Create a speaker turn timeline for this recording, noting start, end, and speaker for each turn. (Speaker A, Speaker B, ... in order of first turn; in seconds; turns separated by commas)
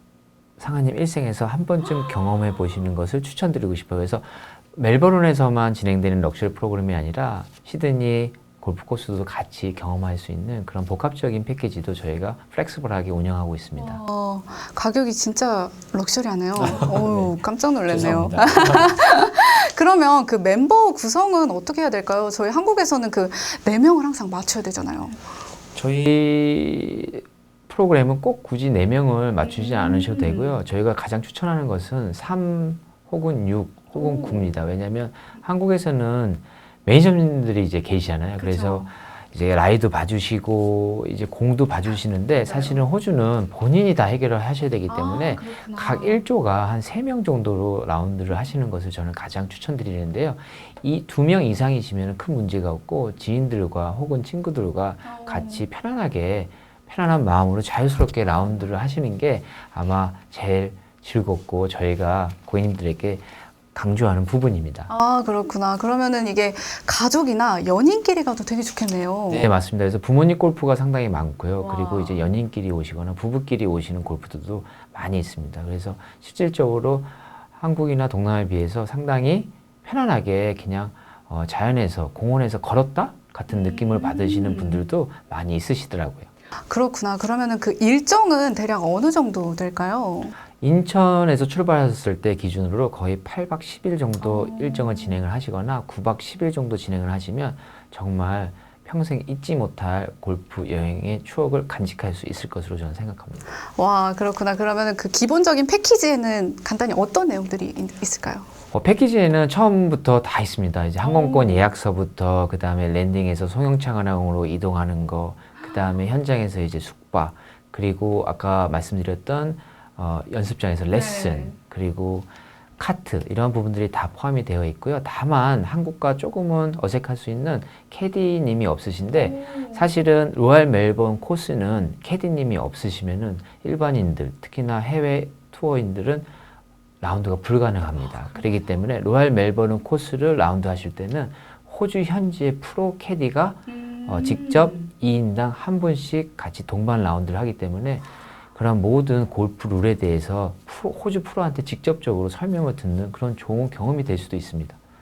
Speaker A: 0.6-14.0, Speaker B: 13.8-25.2, Speaker A: 16.5-17.3, Speaker A: 17.9-19.0, Speaker A: 25.7-64.9, Speaker B: 29.4-30.6, Speaker B: 33.9-34.5, Speaker B: 38.4-38.9, Speaker B: 42.3-42.8, Speaker B: 44.9-46.2, Speaker B: 55.0-55.6, Speaker B: 64.9-69.5, Speaker A: 69.3-86.3, Speaker B: 71.6-72.2, Speaker B: 83.5-84.8, Speaker B: 86.7-90.3, Speaker A: 90.6-103.4, Speaker B: 94.2-95.2, Speaker B: 103.8-108.5, Speaker A: 108.7-136.3, Speaker B: 111.0-111.6, Speaker B: 120.9-121.6, Speaker B: 129.1-129.9, Speaker A: 137.0-154.8, Speaker B: 138.0-138.6, Speaker B: 143.7-144.9